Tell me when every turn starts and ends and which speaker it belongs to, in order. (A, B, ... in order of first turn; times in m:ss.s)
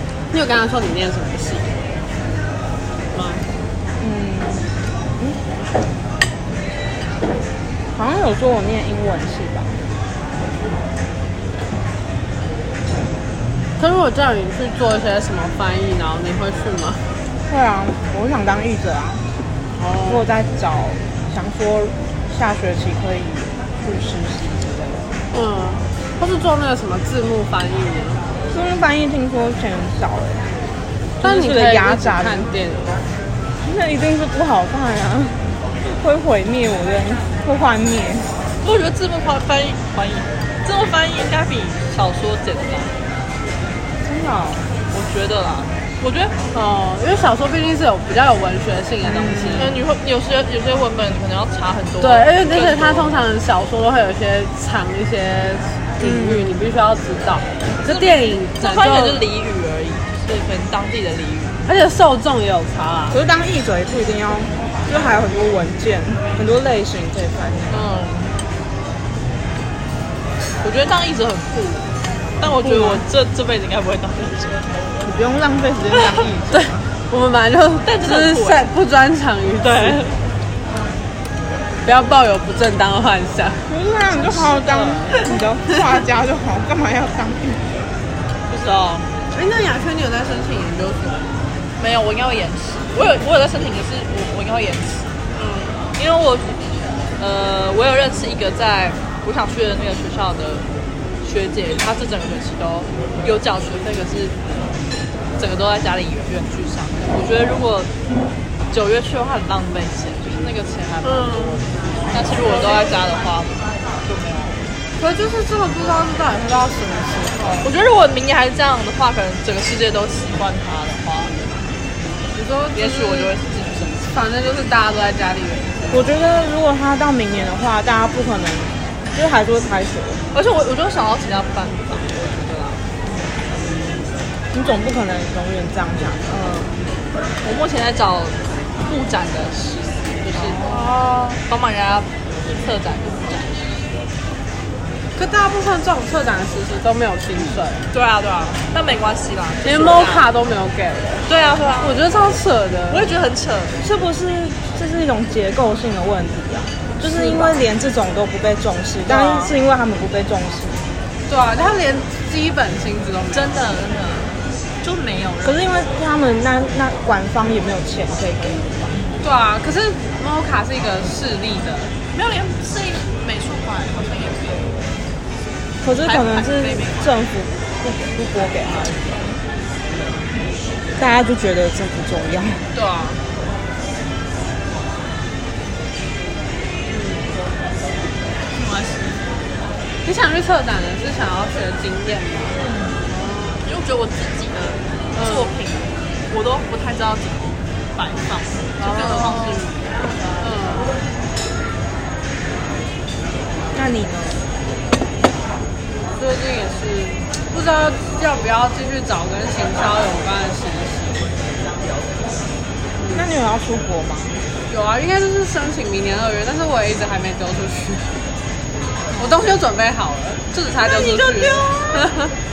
0:00.3-0:01.7 A
0:03.1-0:03.4 A
0:04.0-0:05.4 B
0:08.0-0:09.8 B
0:13.8-0:17.0 A
0:17.5-0:19.2 B
0:19.8-0:20.3 A
0:20.1-0:25.1 B
0:25.3-0:28.2 A
0:28.5-0:30.5 B
0:31.2-0:32.5 B
0:31.2-0:33.0 A
0:33.6-0:38.3 B
0:38.6-0:43.0 C
0:44.0-0:44.7 B
0:44.9-0:46.3 C
0:46.5-0:49.8 A
0:49.0-0:49.8 B
0:49.6-0:53.2 C
0:52.0-0:59.2 A
0:56.0-0:56.5 B
0:57.9-1:01.6 C
1:01.7-1:03.2 A
1:03.1-1:07.8 B
1:07.7-1:08.3 C
1:10.6-1:11.9 C
1:12.4-1:14.7 C
1:12.4-1:13.0 B
1:15.0-1:16.9 B
1:16.5-1:20.0 A
1:17.8-1:18.7 C
1:19.6-1:20.2 C
1:21.8-1:23.6 A
1:23.7-1:27.7 B
1:24.1-1:25.4 C
1:28.5-1:29.1 C
1:29.3-1:31.3 A
1:31.8-1:35.2 C
1:35.4-1:35.7 A
1:36.0-1:36.6 C
1:37.2-1:40.6 C
1:41.2-1:44.4 C
1:45.4-1:47.9 C
1:48.7-1:54.7 C
1:51.0-1:51.6 A
1:52.4-1:52.8 A
1:55.0-1:57.7 A
1:57.6-2:01.7 C
2:02.3-2:03.3 A
2:02.8-2:04.2 C
2:04.1-2:06.0 A
2:05.9-2:10.2 B
2:10.3-2:12.8 C
2:14.5-2:16.8 B
2:17.4-2:23.8 C
2:20.3-2:21.4 A
2:25.2-2:27.8 A
2:27.9-2:30.3 C
2:29.6-2:31.2 A
2:31.3-2:32.0 C
2:31.8-2:33.1 A
2:32.9-2:33.8 C
2:33.8-2:40.9 B
2:37.1-2:37.5 C
2:39.1-2:39.5 A
2:41.3-2:43.5 A
2:43.3-2:45.6 C
2:45.4-2:49.0 B
2:49.2-2:51.9 A
2:52.1-2:54.9 C
2:55.8-2:59.2 B
2:56.0-2:57.1 C
3:01.0-3:02.6 B
3:02.7-3:03.2 A
3:06.9-3:07.3 A
3:08.5-3:09.3 C
3:10.0-3:13.6 A
3:12.5-3:13.0 C
3:13.6-3:19.8 C
3:15.2-3:15.5 A
3:18.8-3:19.8 A
3:20.4-3:21.0 A
3:23.7-3:24.4 B
3:26.0-3:31.4 A
3:33.0-3:33.3 A
3:33.1-3:34.4 B
3:34.7-3:38.2 A
3:39.2-3:39.5 C
3:39.2-3:42.3 A
3:40.8-3:42.1 C